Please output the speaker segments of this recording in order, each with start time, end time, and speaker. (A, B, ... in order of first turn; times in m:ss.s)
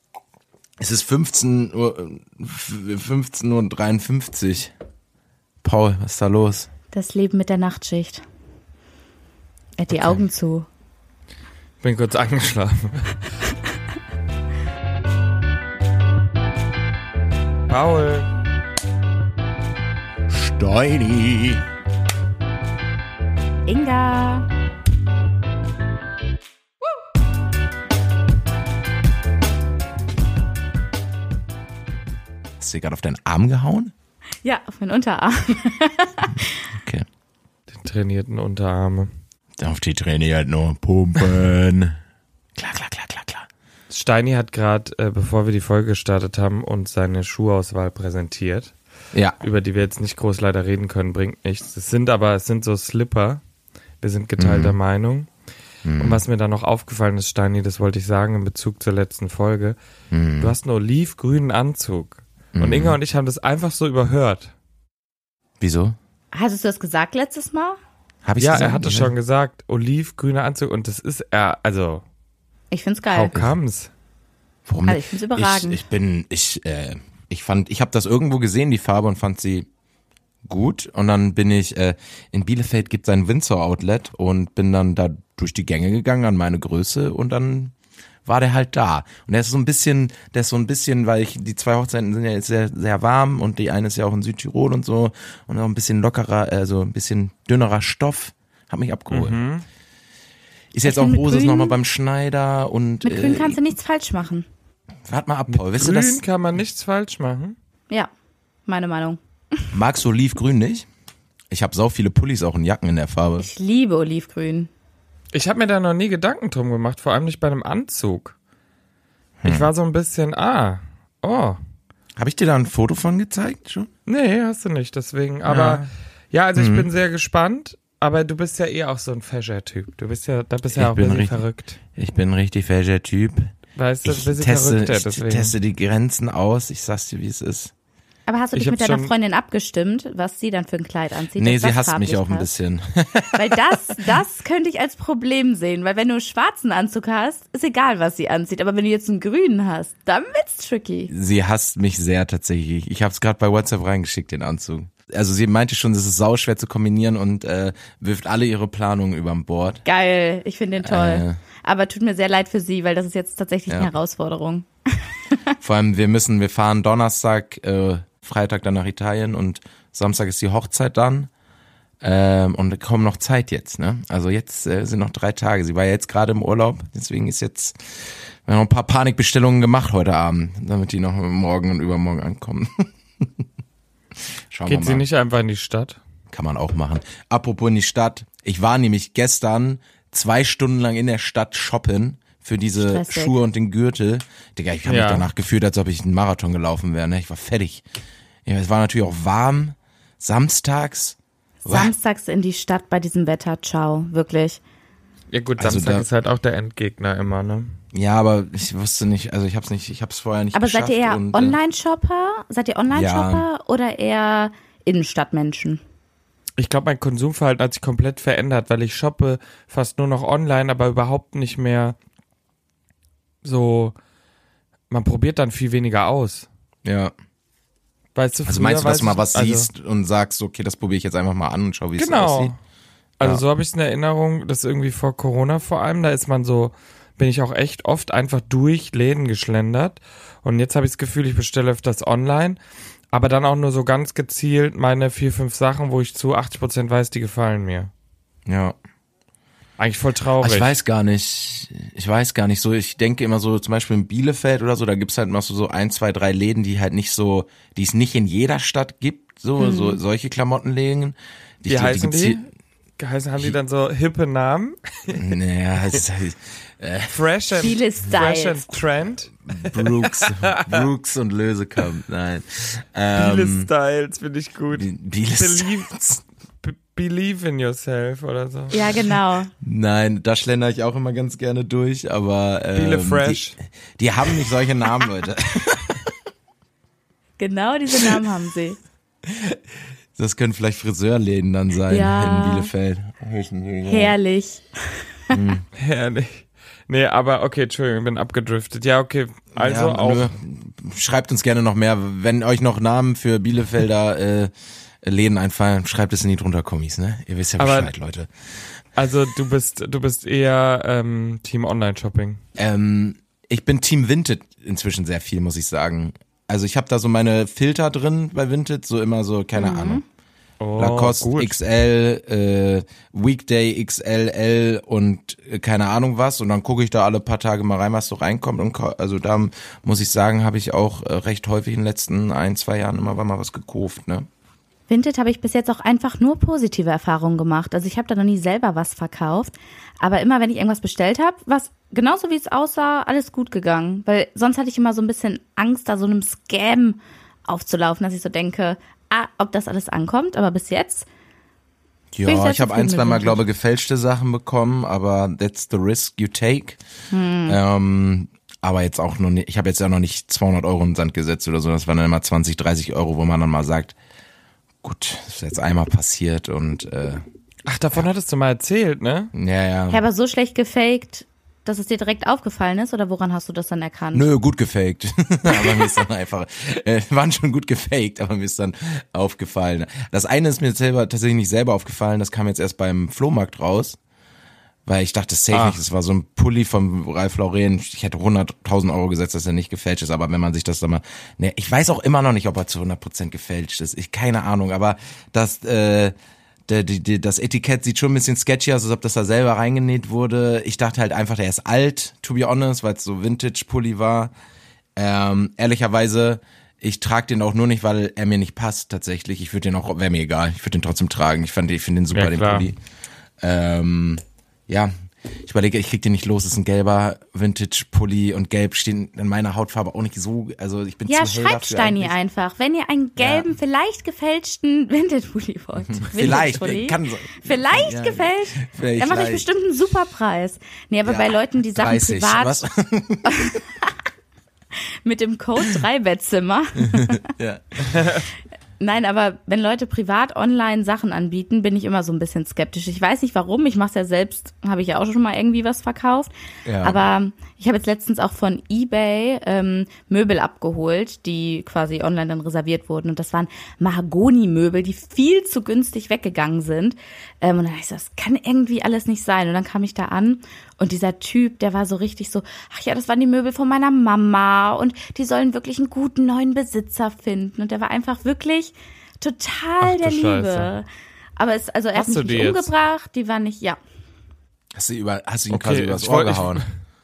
0:00.8-0:04.7 A
0:05.6-0:06.7 A
0:06.9-0:08.2 B
0:09.8-0:10.6 B
0:09.9-0:10.2 A
0:11.8-0:13.2 C
0:17.7-0:18.3 C
0:20.3-0:21.6 A
0:23.7-0:24.5 B
0:32.6-0:33.9 A
0:34.4-0:36.6 B
0:36.7-0:37.0 A
0:37.7-0:39.1 C
0:39.6-0:42.0 A
0:42.6-0:43.5 A
0:43.9-0:48.7 C
0:49.4-0:53.4 C
0:54.0-0:55.3 C
0:54.4-0:54.8 A
0:55.8-0:56.2 A
0:56.0-0:59.8 C
1:00.1-1:00.6 A
1:00.4-1:04.5 C
1:02.5-1:03.0 A
1:05.6-1:06.0 A
1:06.3-1:07.8 B
1:08.2-1:09.1 A
1:08.4-1:12.0 C
1:12.7-1:13.4 B
1:13.1-1:13.9 C
1:14.6-1:19.7 A
1:14.9-1:15.8 B
1:20.4-1:27.7 A
1:28.2-1:39.4 A
1:39.1-1:39.6 C
1:40.7-1:43.6 A
1:40.8-1:41.8 B
1:43.0-1:44.5 B
1:45.1-1:46.2 A
1:45.5-1:47.6 C
1:48.7-1:49.2 B
1:49.7-1:50.9 A
1:51.5-1:53.5 A
1:53.4-1:54.7 B
1:55.3-1:58.3 C
1:59.4-1:59.7 A
1:59.4-2:01.6 C
2:02.2-2:03.9 A
2:04.1-2:11.8 C
2:05.5-2:05.9 A
2:06.6-2:06.9 A
2:10.7-2:11.4 A
2:12.0-2:13.5 A
2:13.8-2:15.5 C
2:14.0-2:17.7 A
2:18.3-2:22.5 B
2:18.5-2:19.1 C
2:21.4-2:24.1 A
2:23.3-2:31.1 B
2:31.1-2:39.8 A
2:39.8-2:45.5 B
2:40.8-2:41.4 A
2:45.6-2:51.3 A
2:52.0-3:03.3 A
3:04.5-3:05.0 A
3:04.6-3:06.0 C
3:06.3-3:17.8 A
3:12.8-3:13.4 B
3:14.9-3:15.3 C
3:18.4-3:21.9 A
3:21.6-3:24.6 B
3:25.3-3:27.7 C
3:25.6-3:26.1 A
3:27.9-3:31.6 A
3:30.5-3:35.8 B
3:32.9-3:33.4 A
3:36.6-3:42.0 C
3:43.4-3:43.9 C
3:44.9-3:46.5 C
3:46.8-3:47.1 A
3:48.2-3:49.7 C
3:48.4-3:52.5 A
3:52.0-3:52.6 C
3:53.2-4:02.6 C
4:03.1-4:07.9 C
4:08.4-4:08.8 A
4:09.8-4:10.7 C
4:10.4-4:22.4 A
4:19.6-4:20.0 B
4:21.6-4:22.4 C
4:23.0-4:25.2 C
4:25.1-4:27.1 A
4:27.1-4:30.8 C
4:27.5-4:28.8 B
4:29.5-4:33.7 A
4:33.2-4:36.0 C
4:34.7-4:36.2 A
4:36.6-4:38.8 C
4:38.7-4:39.5 B
4:39.6-4:46.1 A
4:42.7-4:43.6 C
4:47.4-4:48.8 B
4:49.2-4:49.6 A
4:50.2-4:54.1 A
4:51.9-4:52.7 B
4:53.8-4:55.3 B
4:55.3-4:55.6 A
4:55.8-5:00.3 C
4:59.5-5:04.5 A
5:05.0-5:08.3 A
5:07.6-5:07.9 C
5:09.0-5:12.4 C
5:12.6-5:20.0 A
5:19.5-5:20.0 B
5:20.6-5:21.6 C
5:20.8-5:34.2 A
5:34.9-5:51.1 B
5:52.1-5:56.8 A
5:52.2-5:53.4 B
5:57.1-5:57.6 B
5:57.5-6:04.0 A
6:04.8-6:07.2 A
6:07.6-6:09.3 C
6:09.3-6:10.0 A
6:09.9-6:14.3 B
6:14.1-6:24.0 A
6:15.5-6:16.0 B
6:24.8-6:36.1 A
6:25.5-6:25.8 C
6:36.7-6:44.3 A
6:45.0-6:52.8 A
6:52.1-6:52.7 C
6:53.4-7:02.1 A
7:01.1-7:12.6 B
7:03.2-7:03.5 A
7:05.9-7:09.4 A
7:11.0-7:13.6 A
7:13.2-7:13.9 B
7:15.0-7:17.3 B
7:16.8-7:18.1 A
7:18.8-7:26.3 B
7:26.6-7:27.0 A
7:26.8-7:50.8 B
7:49.8-7:50.7 C
7:51.4-7:53.8 B
7:51.9-7:52.7 C
7:54.7-7:56.6 A
7:55.5-7:56.7 C